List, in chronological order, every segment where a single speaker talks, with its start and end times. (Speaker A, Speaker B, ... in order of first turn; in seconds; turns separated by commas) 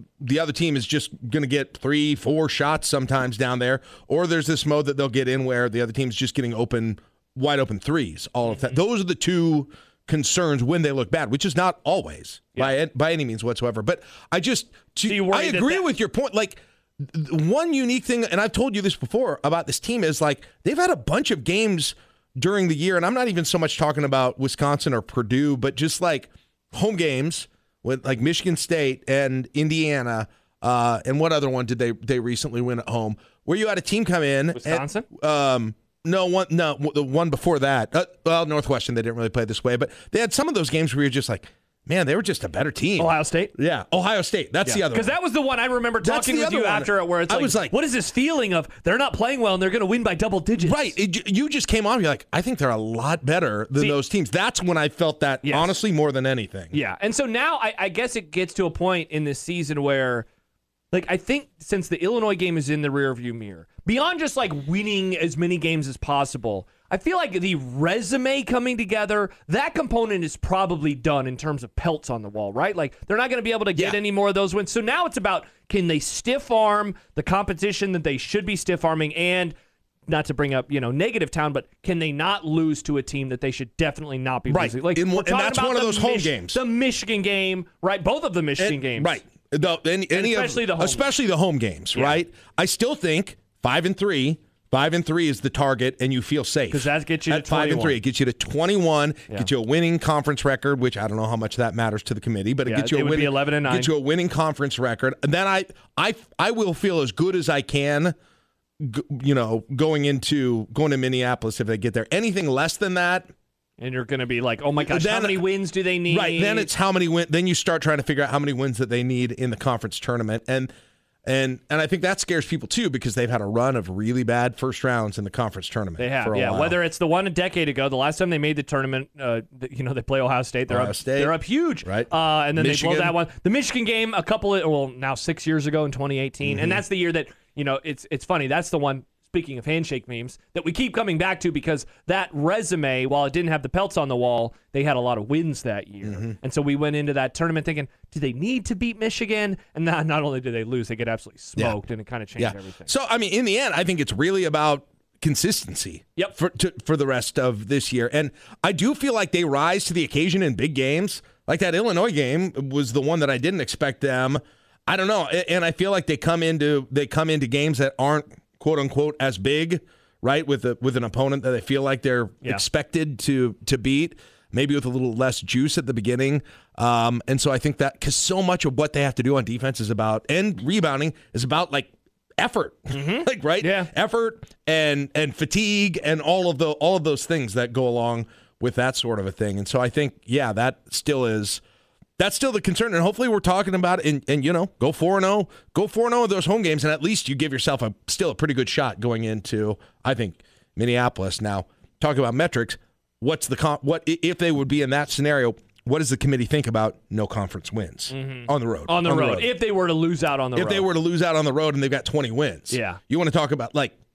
Speaker A: 0.2-45.2, Speaker B: 15.1-15.9, Speaker B: 34.5-35.1, Speaker B: 43.0-43.5, Speaker B: 44.6-51.0, Speaker A: 46.0-47.7, Speaker A: 50.6-56.7, Speaker B: 55.4-55.8, Speaker B: 56.7-60.3, Speaker B: 60.9-79.5, Speaker B: 80.1-89.2, Speaker A: 84.5-86.6, Speaker A: 88.6-108.1, Speaker B: 90.1-91.1, Speaker B: 91.9-92.2, Speaker B: 96.7-98.0, Speaker B: 102.6-103.9, Speaker A: 108.8-113.3, Speaker B: 113.8-116.7, Speaker A: 114.8-115.5, Speaker A: 116.1-120.7, Speaker A: 121.2-126.8, Speaker B: 126.0-152.9, Speaker A: 130.7-133.2, Speaker A: 136.4-136.8, Speaker A: 146.0-146.3, Speaker A: 152.4-191.6, Speaker B: 182.9-183.9, Speaker A: 192.2-209.5, Speaker B: 208.1-210.9, Speaker A: 210.5-213.9, Speaker B: 212.7-213.0